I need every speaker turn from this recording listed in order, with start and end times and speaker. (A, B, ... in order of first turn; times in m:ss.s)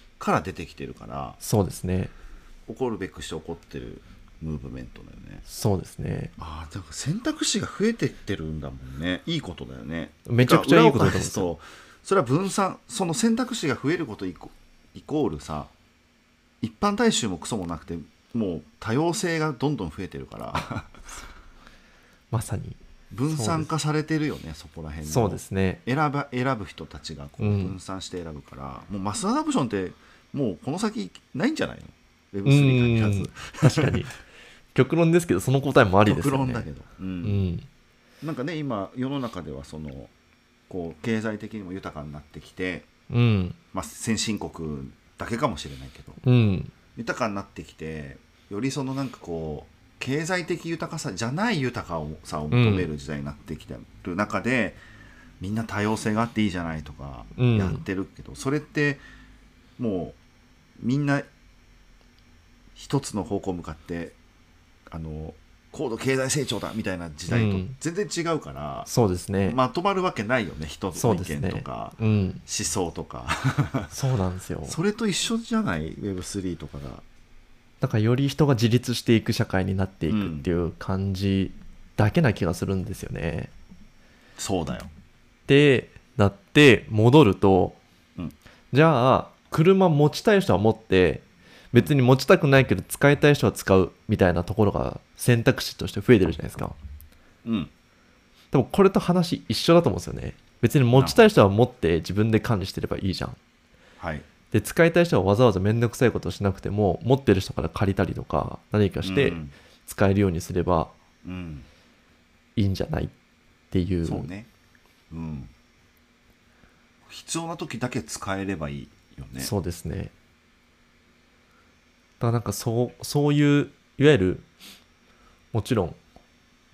0:00.2-0:01.4 A
0:01.4-0:02.1 B
0:02.7-0:05.4 A
0:05.5-0:06.3 B
0:06.4-0:15.7 A
0:10.3-0:11.5 B
0:16.6-0:21.1 A
0:22.3-0:23.7 B
0:23.1-0:34.0 A
0:25.1-0:25.8 B
0:27.4-0:27.8 B
0:32.5-0:34.2 B
0:34.8-0:36.7 B
0:36.0-0:37.4 A
0:37.2-0:37.7 B
0:38.2-0:40.1 A
0:40.7-0:42.9 A
0:43.1-0:43.6 B
0:43.7-0:46.2 A
0:46.2-0:46.7 B
0:47.0-0:54.8 A
0:52.5-0:52.9 B
0:55.4-0:59.0 A
0:57.4-0:57.8 B
0:59.8-1:00.2 A
1:00.8-1:01.3 A
1:02.8-1:04.2 A
1:04.9-1:08.9 A
1:07.3-1:07.8 B
1:08.9-1:09.6 B
1:09.5-1:13.9 A
1:11.0-1:12.4 B
1:13.9-1:14.8 B
1:14.7-1:17.0 A
1:17.8-1:23.5 B
1:20.1-1:20.5 A
1:24.4-1:24.9 A
1:25.5-1:27.8 B
1:28.7-1:36.8 B
1:37.4-1:37.7 A
1:38.5-1:43.4 B
1:40.9-1:41.2 A
1:44.0-1:44.3 A
1:44.5-1:50.9 B
1:49.0-1:49.5 A
1:51.2-1:51.7 A
1:52.6-1:53.1 B
1:53.7-1:54.3 B
1:54.0-1:54.5 A
1:55.1-1:55.5 A
1:57.1-1:59.5 A
1:59.4-2:00.1 B
2:02.2-2:04.4 B
2:05.5-2:06.0 B